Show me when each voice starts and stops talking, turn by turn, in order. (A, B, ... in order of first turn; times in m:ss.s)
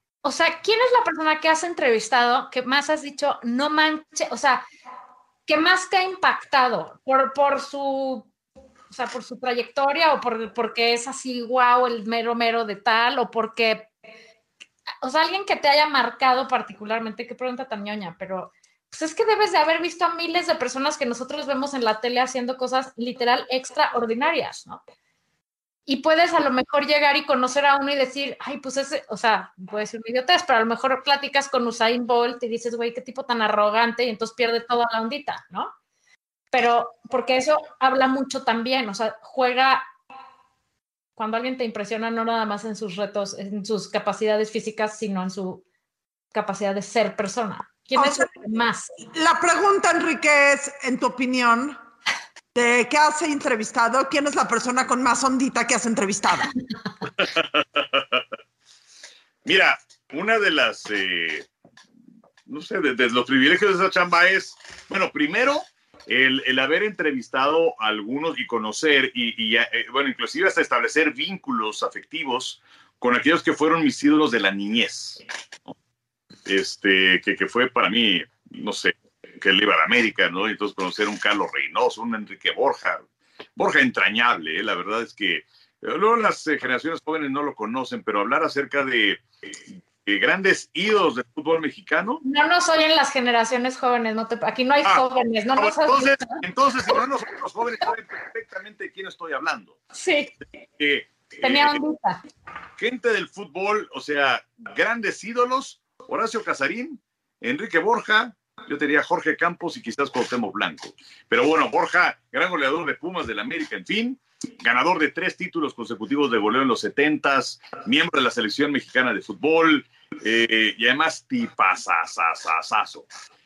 0:00.2-0:04.6 A
0:05.5-0:08.3 A
0:08.9-0:13.9 A
0:15.0-0:24.8 A
0:25.9-0:35.7 A
0:36.5-0:39.8 A
0:41.2-0:45.6 A
0:46.3-0:48.9 A
0:48.0-0:48.3 B
0:49.1-0:51.8 B
0:52.5-0:56.5 B
0:57.2-0:58.2 C
0:59.4-1:01.5 C
1:02.5-1:15.7 C
1:16.5-1:23.0 C
1:23.6-1:32.2 C
1:32.2-1:36.4 A
1:35.6-1:39.8 C
1:39.9-1:40.3 A
1:40.8-1:41.8 C
1:41.4-1:42.2 A
1:42.8-2:03.1 C